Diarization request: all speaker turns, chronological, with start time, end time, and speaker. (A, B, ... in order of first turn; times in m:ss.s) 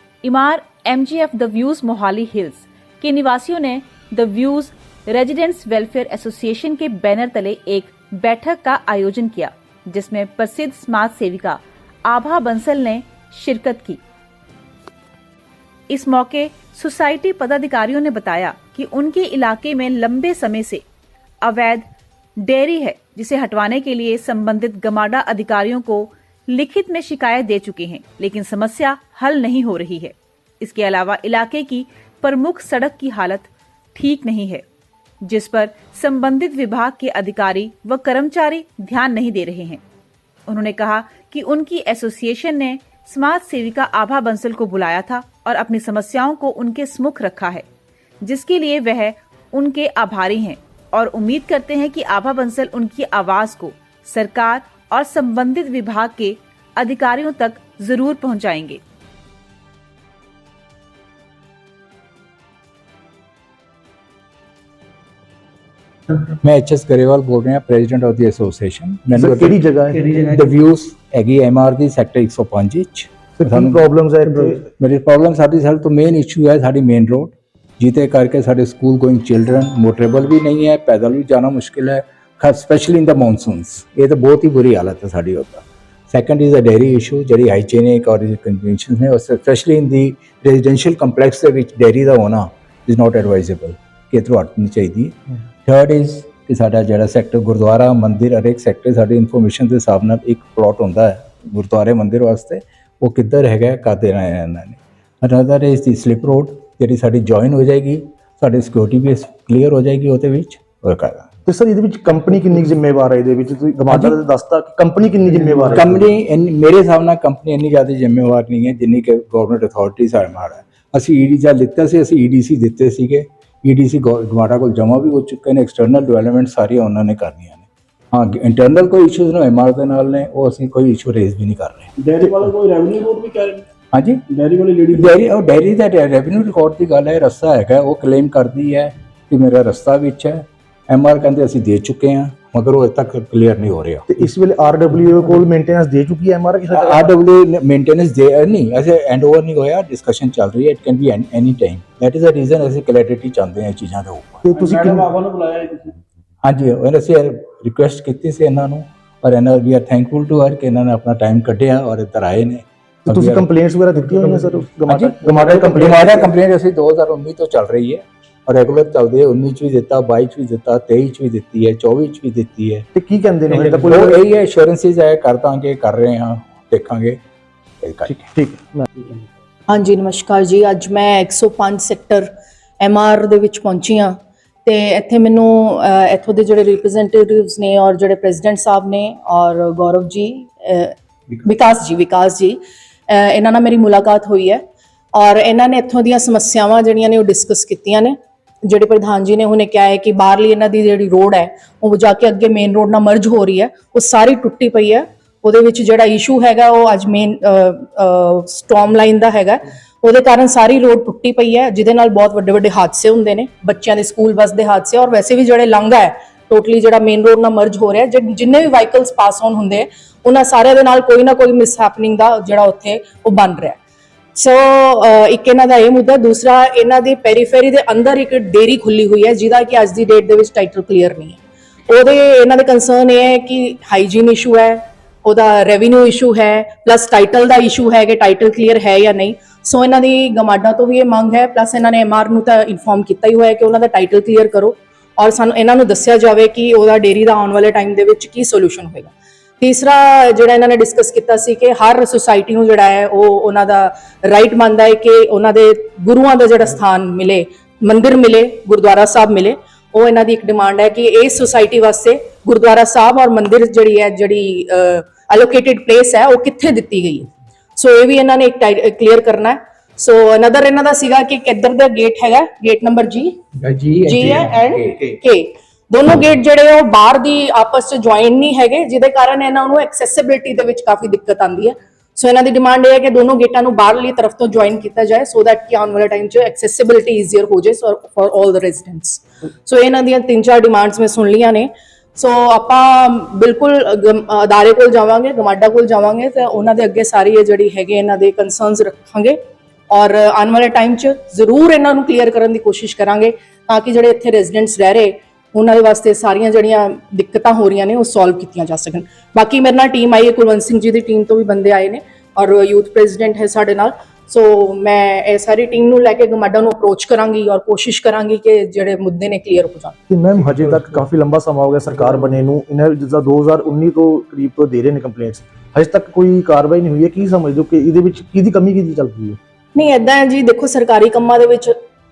0:00.2-0:14.0 A
0:15.9-0:20.8 A
0:21.4-0:21.9 A
0:22.4-0:34.6 A
0:35.2-0:39.8 A
0:40.5-0:47.6 A
0:48.2-0:58.8 A
1:06.2-1:13.8 B
1:09.2-1:10.1 C
1:13.4-1:14.6 C
1:14.4-1:51.3 B
1:51.5-1:56.0 C
1:53.9-1:54.1 B
1:55.5-2:11.9 B
2:12.0-2:13.6 D
2:13.9-2:14.2 B
2:14.3-2:15.0 D
2:14.9-2:24.0 B
2:24.1-2:27.1 C
2:26.7-2:34.4 B
2:34.4-2:35.1 C
2:34.5-2:36.0 D
2:36.4-2:43.4 B
2:43.0-2:46.3 C
2:44.9-2:52.9 B
2:52.9-2:54.2 C
2:53.5-2:57.2 B
2:57.8-2:58.1 B
2:58.1-2:58.9 C
2:59.7-3:02.3 E
3:02.8-3:14.6 E
3:15.1-3:43.8 E
3:44.3-4:33.4 E
4:33.6-4:35.2 B
4:34.0-4:59.4 E
4:59.9-5:20.0 E
5:20.1-5:29.4 C
5:29.7-5:31.7 E